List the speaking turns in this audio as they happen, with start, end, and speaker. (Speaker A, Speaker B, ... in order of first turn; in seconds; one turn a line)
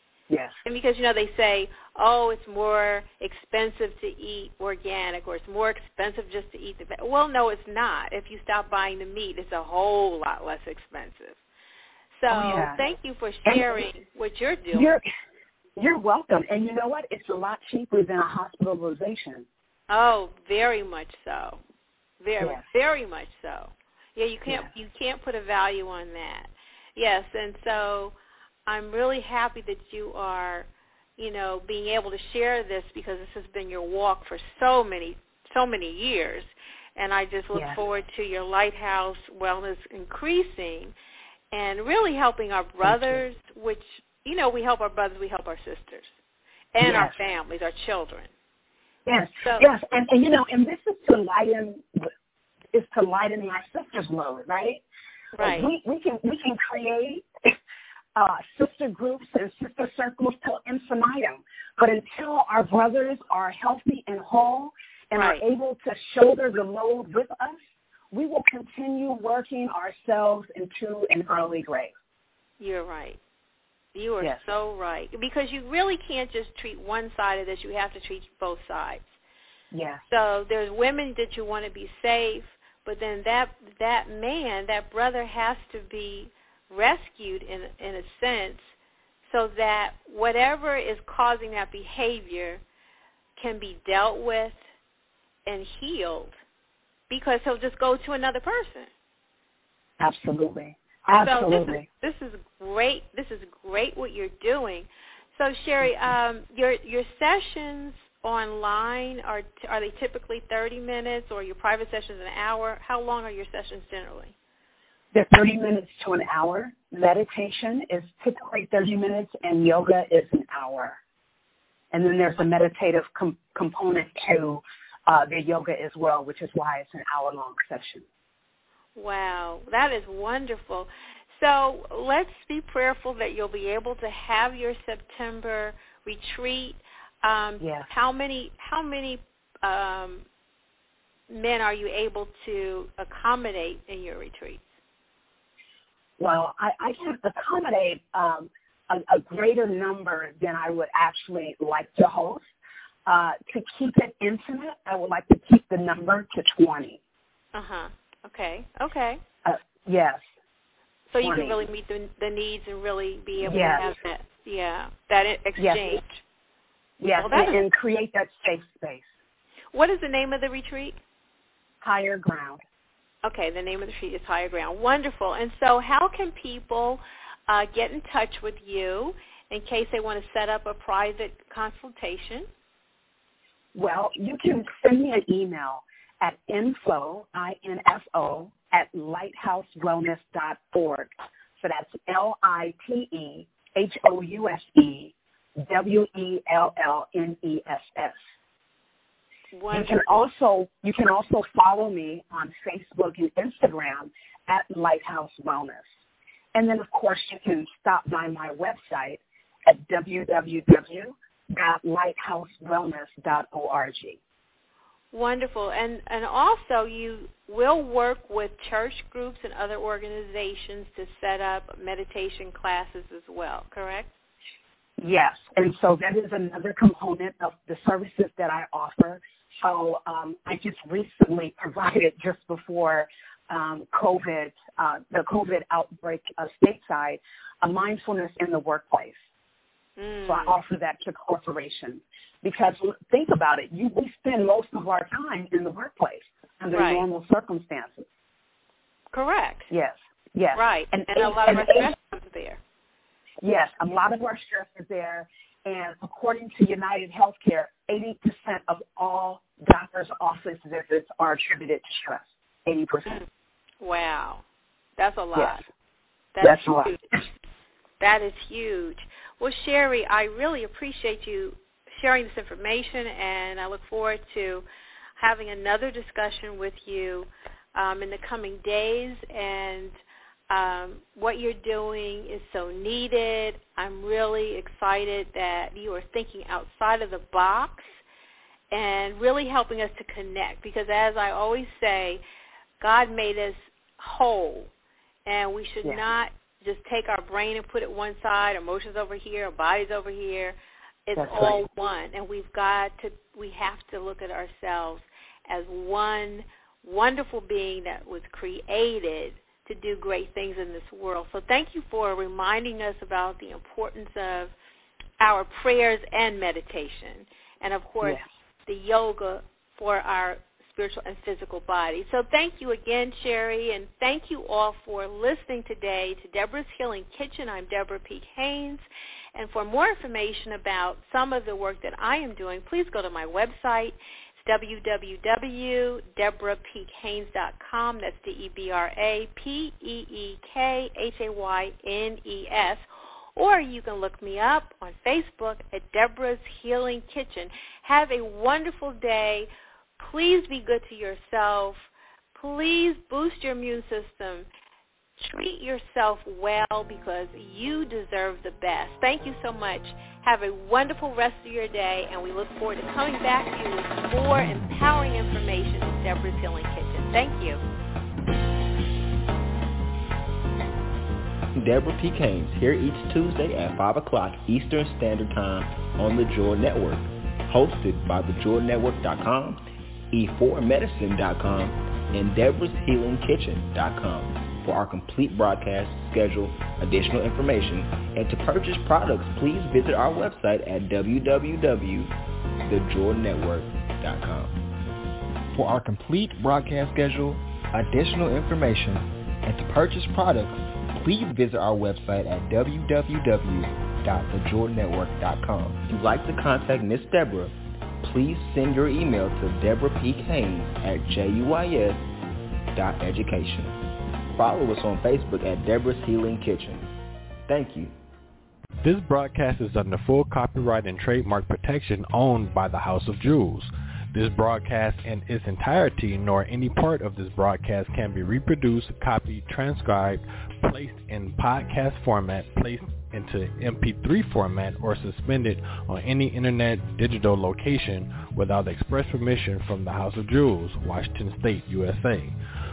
Speaker A: 0.3-0.5
Speaker B: 0.6-11.4
Speaker B: 12.2-14.9
Speaker A: 12.3-12.8
Speaker A: 13.4-13.8
Speaker A: 14.7-15.0
Speaker A: 15.8-19.4
Speaker B: 19.9-21.6
Speaker B: 22.2-28.1
Speaker B: 28.7-40.9
Speaker A: 37.5-37.8
Speaker B: 41.5-46.1
Speaker A: 42.8-43.2
Speaker B: 46.7-48.3
Speaker A: 46.8-47.1
Speaker A: 49.0-52.1
Speaker B: 49.4-49.7
Speaker A: 52.7-54.8
Speaker B: 55.3-55.7
Speaker A: 55.4-57.5
Speaker A: 58.1-67.6
Speaker B: 65.1-65.4
Speaker A: 68.1-71.9
Speaker B: 72.6-73.2
Speaker B: 73.9-79.1
Speaker A: 79.7-80.0
Speaker B: 80.1-88.6
Speaker B: 89.3-92.6
Speaker B: 93.4-94.5
Speaker B: 95.5-96.3
Speaker B: 97.1-98.9
Speaker A: 100.0-101.8
Speaker B: 101.2-114.3
Speaker A: 115.1-121.0
Speaker A: 121.9-128.0
Speaker B: 128.9-140.2
Speaker A: 137.6-137.9
Speaker B: 141.3-144.6
Speaker A: 146.2-152.4
Speaker A: 153.1-157.0
Speaker B: 157.5-159.2
Speaker A: 159.4-160.2
Speaker B: 161.1-166.2
Speaker A: 161.2-161.6
Speaker A: 163.4-163.9
Speaker A: 165.6-166.0
Speaker A: 167.0-169.1
Speaker B: 167.2-167.6
Speaker B: 169.7-171.0
Speaker A: 171.8-172.6
Speaker B: 173.2-182.5
Speaker A: 183.7-198.2
Speaker B: 199.5-200.1
Speaker A: 199.7-205.8
Speaker A: 206.5-214.2
Speaker B: 215.1-224.1
Speaker A: 225.0-239.2
Speaker B: 240.0-240.6
Speaker A: 240.2-248.1
Speaker B: 246.7-247.1
Speaker B: 249.1-249.7
Speaker A: 249.7-251.9
Speaker B: 250.5-252.6
Speaker A: 253.4-263.2
Speaker B: 263.8-264.4
Speaker B: 265.0-265.6
Speaker A: 265.3-265.6
Speaker B: 266.3-267.0
Speaker A: 266.4-267.0
Speaker B: 268.0-274.6
Speaker B: 275.2-279.9
Speaker B: 280.5-287.9
Speaker B: 288.7-292.2
Speaker B: 292.8-294.7
Speaker B: 295.2-314.5
Speaker A: 301.1-301.6
Speaker B: 315.2-349.5
Speaker B: 350.0-354.4
Speaker B: 355.2-367.6
Speaker C: 371.5-394.6
Speaker C: 395.5-412.1
Speaker C: 412.7-413.8
Speaker C: 414.3-416.8
Speaker C: 417.5-417.9
Speaker D: 418.8-442.4